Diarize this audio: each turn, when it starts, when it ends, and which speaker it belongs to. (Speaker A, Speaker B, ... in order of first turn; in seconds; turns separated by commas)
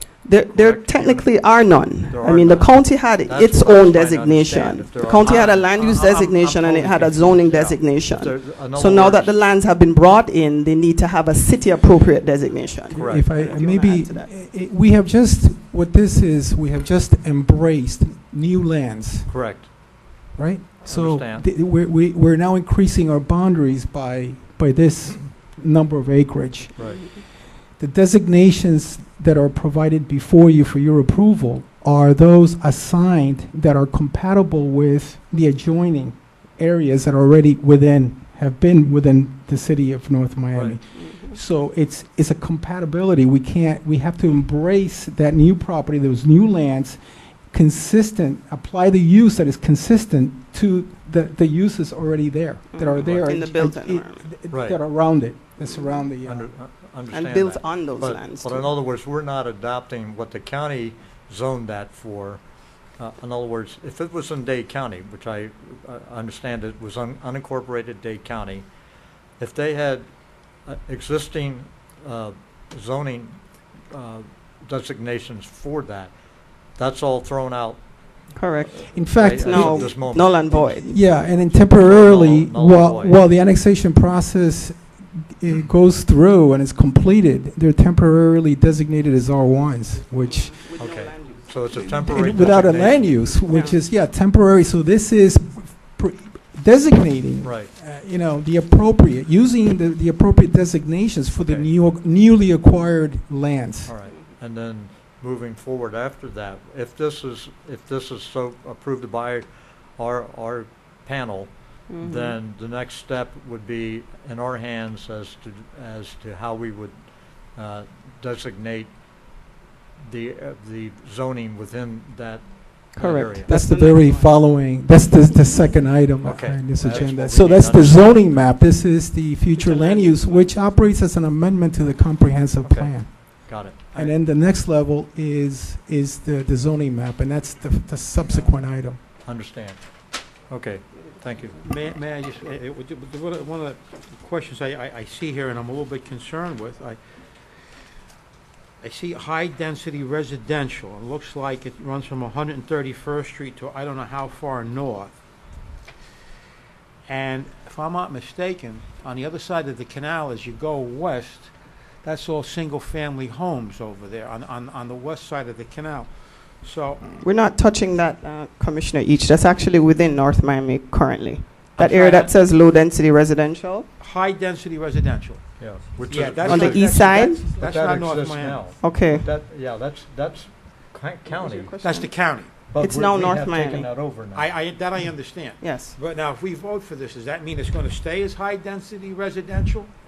Speaker A: 0.2-14.3, Speaker B: 0.5-5.6, Speaker C: 5.1-7.8, Speaker B: 8.1-9.3, Speaker D: 12.9-19.4, Speaker B: 12.9-13.3, Speaker B: 19.3-19.9, Speaker D: 20.3-27.1, Speaker B: 20.8-21.4, Speaker B: 26.8-27.0, Speaker A: 26.8-27.2, Speaker D: 27.8-47.0, Speaker B: 40.5-40.8, Speaker A: 40.9-41.4, Speaker D: 47.5-56.5, Speaker A: 52.7-54.3, Speaker B: 53.0-53.2, Speaker B: 54.5-54.8, Speaker A: 55.6-56.1, Speaker B: 56.2-62.4, Speaker A: 57.1-58.7, Speaker B: 63.0-68.7, Speaker B: 69.4-70.0, Speaker B: 70.6-73.4, Speaker B: 73.9-76.1, Speaker B: 76.7-77.8, Speaker A: 78.3-81.0, Speaker B: 78.7-83.2, Speaker D: 78.9-80.0, Speaker D: 80.9-90.6, Speaker A: 90.2-92.5, Speaker B: 90.8-93.3, Speaker D: 92.0-103.9, Speaker A: 93.4-93.8, Speaker B: 97.4-97.7, Speaker B: 103.8-119.0, Speaker A: 104.1-104.3, Speaker A: 111.9-112.3, Speaker B: 120.0-123.5, Speaker A: 122.9-124.4, Speaker D: 123.4-139.0, Speaker B: 126.2-128.2, Speaker C: 129.6-130.5, Speaker B: 132.6-133.8, Speaker C: 138.3-138.5, Speaker B: 139.2-139.9, Speaker B: 140.5-141.6, Speaker C: 141.6-147.0, Speaker C: 148.8-155.1, Speaker C: 157.1-167.1, Speaker A: 167.2-173.9, Speaker C: 171.8-172.3, Speaker C: 174.0-178.6, Speaker B: 175.6-176.9, Speaker A: 176.4-177.5, Speaker B: 177.6-181.7, Speaker A: 178.8-179.3, Speaker A: 181.3-182.1, Speaker C: 181.8-182.5, Speaker B: 182.7-184.5, Speaker A: 182.8-183.9, Speaker C: 184.3-189.9, Speaker A: 185.6-185.9